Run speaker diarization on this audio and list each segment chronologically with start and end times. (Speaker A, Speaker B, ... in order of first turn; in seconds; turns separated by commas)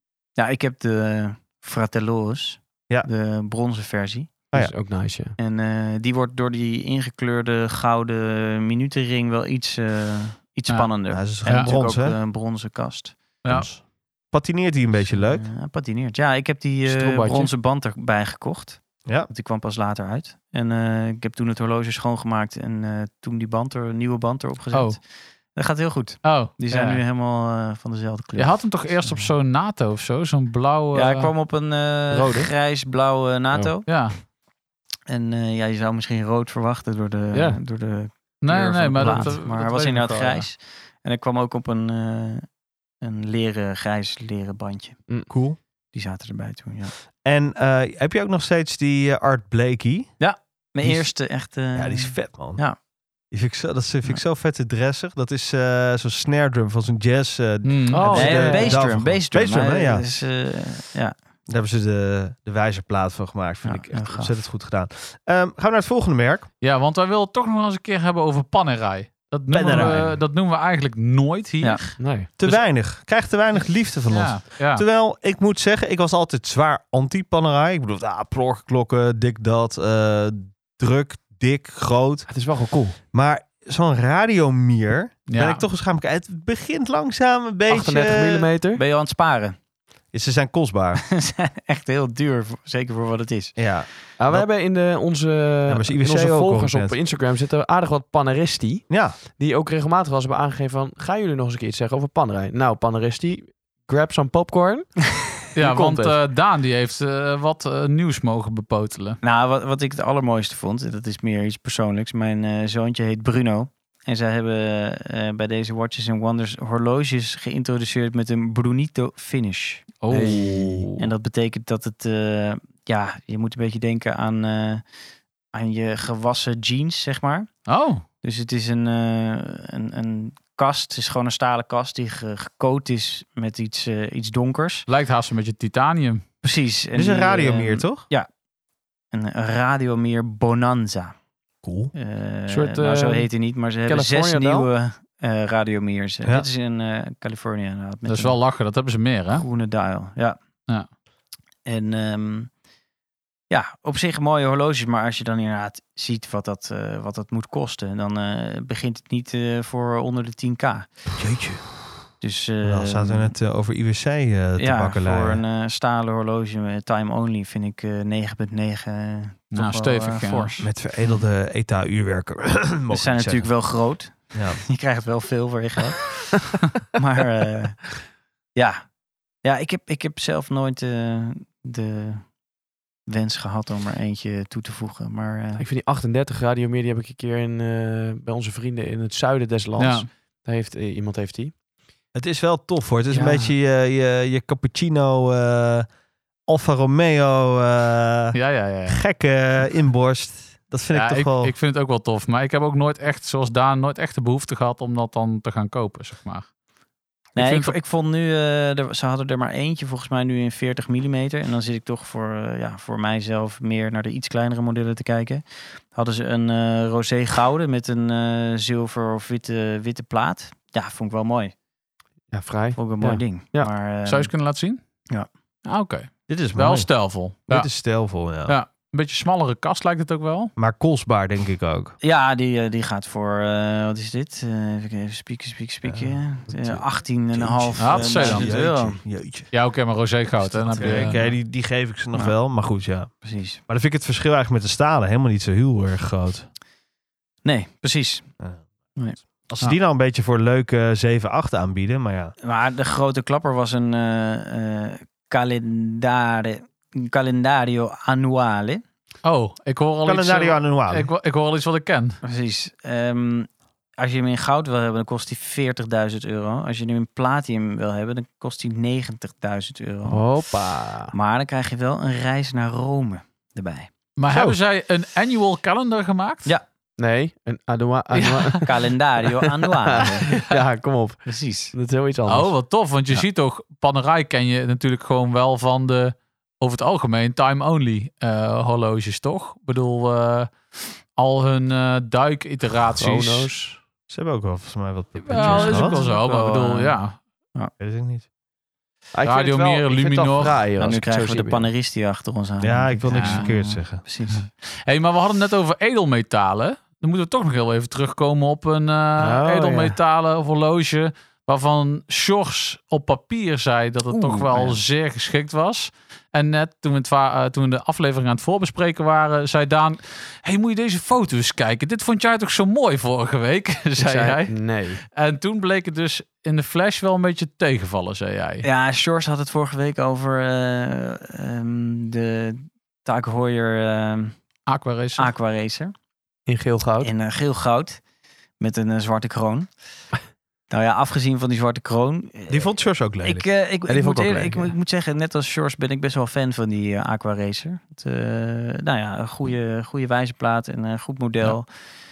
Speaker A: 0.4-4.3, Speaker B: 4.5-5.3, Speaker A: 5.4-13.2, Speaker C: 11.1-12.2, Speaker C: 13.4-15.4, Speaker A: 15.0-29.3, Speaker B: 16.9-17.5, Speaker C: 19.0-19.3, Speaker D: 26.2-27.0, Speaker D: 28.4-31.3, Speaker A: 30.9-33.9, Speaker B: 32.1-32.5, Speaker D: 33.9-34.2, Speaker A: 35.1-42.5, Speaker B: 37.3-37.6, Speaker D: 38.4-40.5, Speaker B: 39.0-39.3, Speaker A: 43.0-45.0, Speaker C: 45.3-45.6, Speaker A: 45.9-46.9, Speaker C: 47.2-50.1, Speaker A: 50.2-52.8, Speaker C: 51.7-52.6, Speaker C: 53.3-60.0, Speaker D: 57.6-58.3, Speaker B: 57.9-58.8, Speaker A: 58.1-61.1, Speaker C: 61.5-66.5, Speaker A: 63.6-64.4, Speaker D: 66.6-72.6, Speaker C: 69.5-70.2, Speaker B: 72.0-72.3, Speaker C: 72.4-82.3, Speaker D: 74.1-74.8, Speaker B: 82.3-83.0, Speaker C: 83.1-88.5, Speaker D: 85.3-85.6, Speaker B: 87.7-88.8, Speaker A: 88.7-89.5, Speaker C: 90.1-91.0, Speaker A: 91.1-93.5, Speaker C: 93.5-94.5, Speaker B: 94.2-106.2, Speaker C: 95.7-97.0, Speaker C: 98.9-99.2, Speaker D: 105.5-109.2, Speaker A: 109.2-119.8, Speaker D: 120.0-120.9, Speaker B: 120.1-121.0, Speaker A: 121.0-124.8, Speaker A: 125.5-127.5, Speaker D: 127.7-128.0, Speaker A: 128.2-134.8, Speaker D: 134.9-136.2, Speaker A: 136.4-138.3, Speaker C: 136.9-138.1, Speaker A: 139.1-141.1, Speaker C: 141.6-141.9, Speaker A: 141.9-148.4, Speaker B: 142.5-143.3, Speaker B: 143.8-144.7, Speaker D: 148.1-149.4, Speaker A: 149.3-150.4, Speaker A: 151.7-152.5, Speaker A: 153.5-160.9, Speaker C: 161.2-161.9, Speaker A: 162.2-163.3, Speaker C: 162.6-165.4, Speaker A: 164.6-170.7, Speaker D: 169.5-170.6, Speaker C: 170.6-174.6, Speaker A: 172.9-176.3, Speaker A: 176.9-178.0, Speaker A: 178.5-178.8, Speaker A: 179.4-182.3, Speaker A: 183.1-185.6, Speaker B: 185.6-191.5, Speaker D: 189.8-190.1, Speaker C: 192.1-195.9, Speaker B: 193.1-193.5, Speaker C: 196.5-201.5, Speaker D: 198.3-199.0, Speaker D: 200.9-206.5, Speaker D: 207.3-207.8, Speaker A: 207.3-221.5, Speaker B: 222.3-223.7, Speaker A: 222.8-224.3, Speaker D: 224.0-224.8, Speaker D: 225.7-230.5, Speaker C: 226.3-226.9, Speaker C: 227.5-228.6, Speaker C: 230.6-231.9, Speaker A: 232.0-239.0, Speaker C: 235.8-239.5, Speaker D: 237.8-238.5, Speaker D: 239.5-241.2, Speaker C: 240.5-243.1, Speaker A: 240.5-241.3, Speaker A: 243.2-243.6, Speaker C: 243.7-246.5, Speaker A: 247.4-248.2, Speaker C: 249.2-252.3, Speaker A: 252.4-258.8, Speaker D: 259.2-262.2, Speaker C: 260.1-261.1, Speaker A: 262.2-270.2, Speaker B: 270.1-271.1, Speaker A: 271.1-273.9, Speaker D: 274.2-276.5, Speaker B: 274.3-274.6, Speaker B: 277.0-282.5, Speaker D: 278.1-278.6, Speaker A: 278.6-280.3, Speaker A: 281.2-281.7, Speaker D: 282.3-293.6, Speaker B: 292.9-293.8, Speaker C: 294.1-296.0, Speaker B: 295.3-296.9, Speaker D: 295.3-297.2, Speaker C: 297.8-298.3, Speaker B: 299.1-301.7, Speaker D: 299.2-300.6, Speaker A: 300.8-304.5, Speaker C: 302.6-304.0, Speaker D: 303.1-303.5, Speaker D: 304.9-328.6, Speaker B: 309.2-309.9, Speaker B: 314.1-314.7, Speaker B: 324.0-325.0, Speaker A: 328.6-334.4, Speaker D: 334.7-335.3, Speaker A: 335.1-335.9, Speaker B: 336.5-337.1, Speaker A: 337.0-338.0, Speaker A: 338.6-339.7, Speaker A: 340.7-351.7, Speaker C: 342.5-343.5, Speaker B: 343.9-344.7